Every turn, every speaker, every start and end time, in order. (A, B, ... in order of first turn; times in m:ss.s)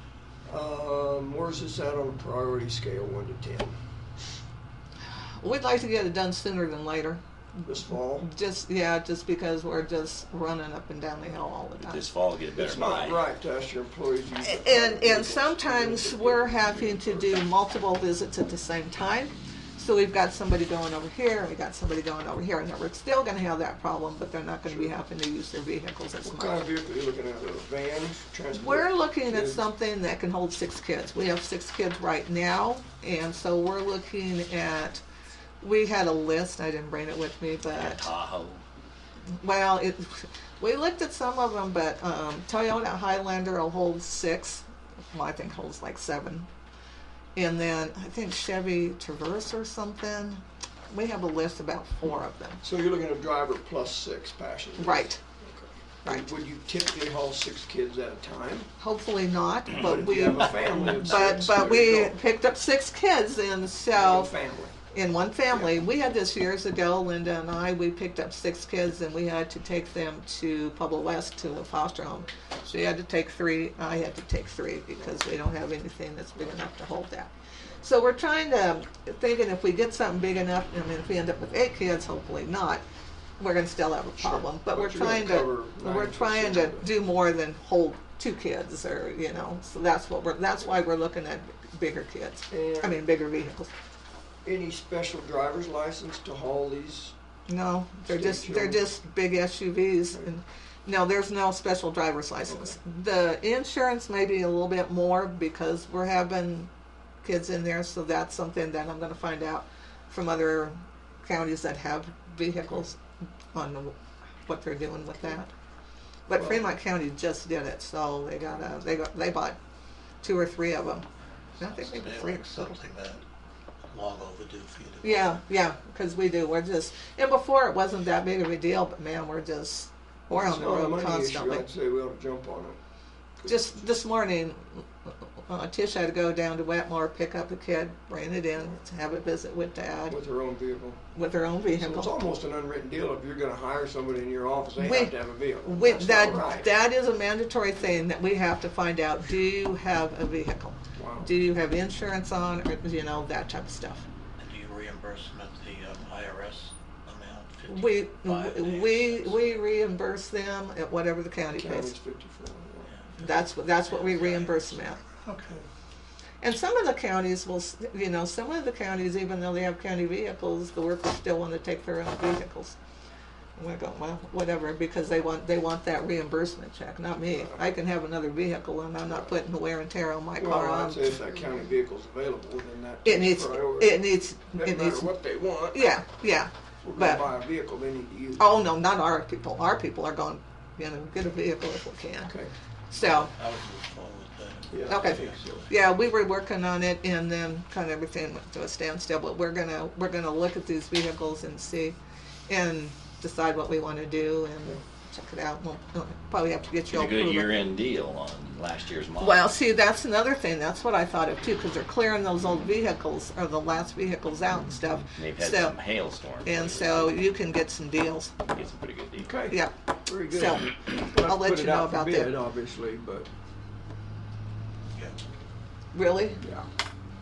0:00.5-0:03.8 A
0:05.2-0:07.2 B
0:07.6-0:08.3 A
0:08.2-0:12.0 B
0:11.8-0:13.2 C
0:12.6-0:17.4 A
0:14.4-0:26.6 B
0:24.6-0:24.9 A
0:26.2-0:29.7 A
0:28.5-0:35.0 B
0:35.6-0:38.0 B
0:37.7-0:38.6 C
0:39.4-0:46.5 B
0:47.4-0:52.6 B
0:52.6-0:58.7 A
0:54.8-0:55.2 B
0:58.8-1:04.3 B
0:59.7-1:02.2 A
1:03.9-1:04.8 A
1:04.9-1:22.8 B
1:23.4-1:33.7 B
1:24.2-1:26.9 A
1:32.5-1:33.0 A
1:34.4-1:37.1 A
1:37.5-1:46.7 B
1:38.1-1:38.9 A
1:42.5-1:42.8 A
1:47.2-1:53.0 B
1:53.5-1:55.5 B
1:56.3-1:59.6 B
1:56.4-1:56.7 A
2:00.2-2:01.1 B
2:01.6-2:03.2 D
2:01.6-2:02.8 B
2:03.9-2:05.4 D
2:05.0-2:11.7 B
2:10.3-2:12.8 A
2:13.5-2:20.2 B
2:20.1-2:21.0 A
2:21.1-2:22.2 B
2:21.7-2:26.7 A
2:24.8-2:34.0 B
2:31.0-2:31.3 A
2:34.4-2:39.7 D
2:37.7-2:41.9 B
2:41.5-2:43.0 A
2:42.9-2:45.6 D
2:43.2-2:45.0 B
2:46.4-2:52.8 B
2:53.6-3:01.2 B
2:57.3-2:57.6 A
2:59.1-2:59.3 A
3:00.4-3:06.0 A
3:03.0-3:05.2 B
3:05.7-3:07.2 B
3:06.8-3:08.7 A
3:08.4-3:12.3 B
3:12.3-3:12.5 A
3:12.9-3:13.3 B
3:13.0-3:15.6 D
3:14.7-3:15.7 A
3:14.9-3:22.0 B
3:22.5-3:27.6 B
3:26.9-3:29.5 C
3:29.2-3:35.8 B
3:35.1-3:37.2 C
3:36.4-3:38.4 B
3:38.5-3:39.5 C
3:39.2-3:43.3 A
3:40.3-3:42.4 B
3:45.9-3:46.4 B